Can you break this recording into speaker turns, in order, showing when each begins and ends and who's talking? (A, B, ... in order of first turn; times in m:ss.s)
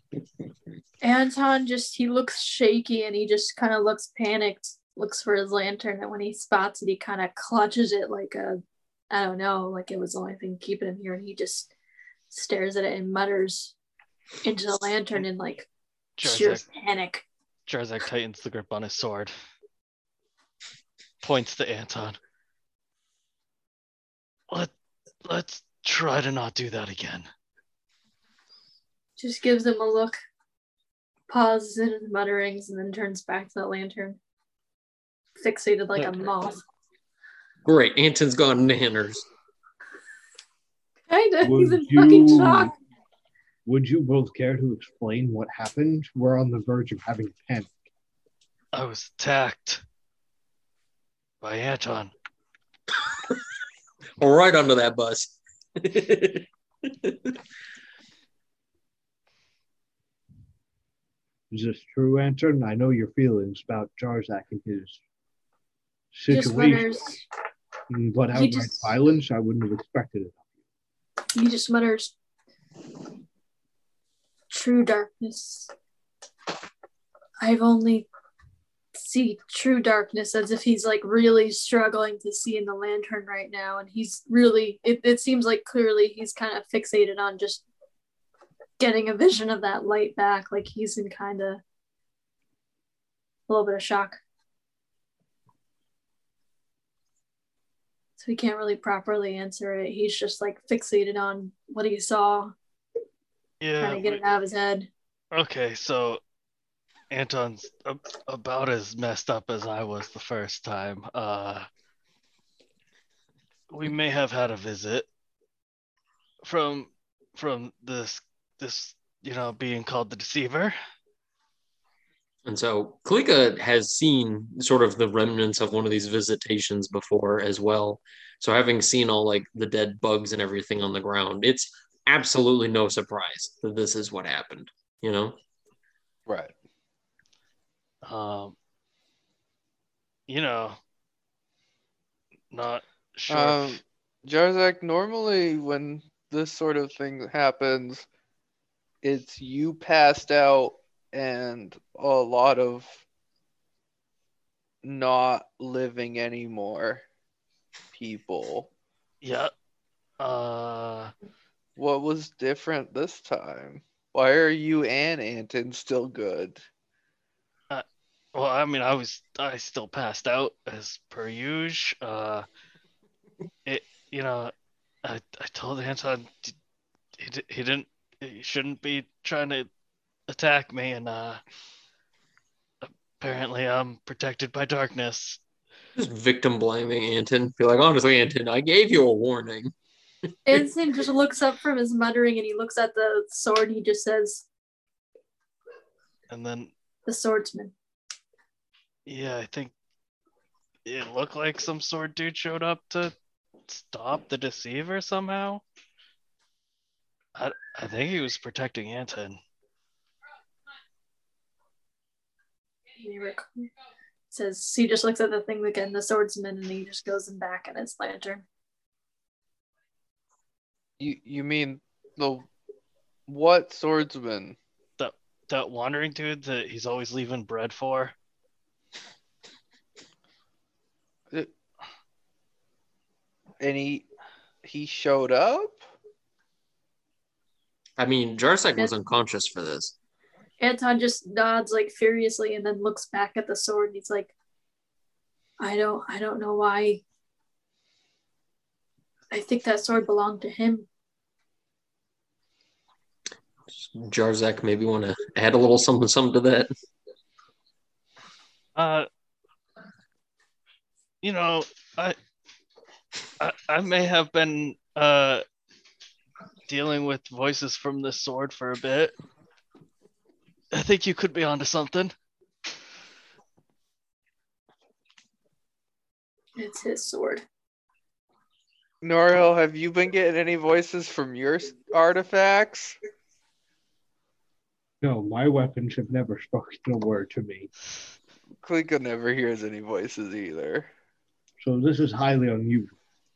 0:01.0-0:11.7 A
0:12.3-0:13.7 A
0:14.4-0:15.7 A
0:16.2-0:16.6 B
0:16.2-0:17.2 A
0:17.7-0:19.3 B
0:21.2-0:22.2 B
0:25.2-0:27.3 B
0:29.2-0:30.2 A
0:31.3-0:34.2 A
0:35.4-0:36.6 A
0:36.0-0:36.3 C
0:37.6-0:39.3 C
0:41.1-0:42.7 A
0:41.4-0:42.7 D
0:43.7-0:47.8 D
0:48.7-0:49.8 B
0:51.4-0:52.1 B
0:54.2-0:57.3 C
1:01.5-1:05.0 D
1:06.1-1:07.0 D
1:06.3-1:07.2 A
1:07.9-1:10.5 D
1:08.3-1:08.9 A
1:11.3-1:12.1 A
1:14.5-1:15.7 A
1:17.4-1:18.1 A
1:19.0-1:27.6 A
1:28.8-1:31.6 A
1:33.5-1:34.2 A
1:38.2-1:42.6 A
1:43.6-1:44.2 B
1:43.8-1:44.9 A
1:45.3-1:46.2 B
1:47.1-1:51.7 B
1:53.7-1:55.1 B
1:56.4-2:00.8 B
2:02.5-2:15.4 C
2:16.3-2:16.5 E
2:18.0-2:18.6 B
2:20.3-2:20.8 B
2:22.5-2:23.8 B
2:23.3-2:28.1 E
2:29.0-2:33.0 E
2:34.8-2:37.0 E
2:37.9-2:38.7 E
2:39.2-2:39.5 B
2:40.2-2:41.1 B
2:41.8-2:46.6 E
2:47.7-2:52.4 B
2:53.6-2:54.5 B
2:55.0-2:56.6 B
2:57.2-2:59.7 B
3:00.3-3:01.4 B
3:02.8-3:05.4 B
3:06.0-3:09.7 C
3:10.5-3:14.5 A
3:16.3-3:16.7 B
3:17.1-3:17.7 A
3:19.1-3:19.7 B
3:20.8-3:23.1 B
3:23.7-3:25.6 B
3:27.4-3:29.4 B
3:33.0-3:33.7 A
3:34.3-3:38.4 A
3:41.0-3:42.5 E
3:43.3-3:44.6 E
3:45.0-3:48.1 B
3:53.6-3:54.1 E
3:54.6-3:55.9 E
3:58.0-3:59.9 C
4:00.6-4:04.3 A
4:05.6-4:07.0 A
4:09.3-4:10.9 A
4:13.8-4:16.7 C
4:18.8-4:19.1 B
4:21.2-4:22.2 B
4:23.4-4:25.4 B
4:26.7-4:29.1 B
4:30.7-4:32.1 B
4:36.6-4:37.4 A
4:39.0-4:43.0 E
4:45.0-4:47.7 D
4:48.6-4:50.9 E
4:51.6-4:53.0 D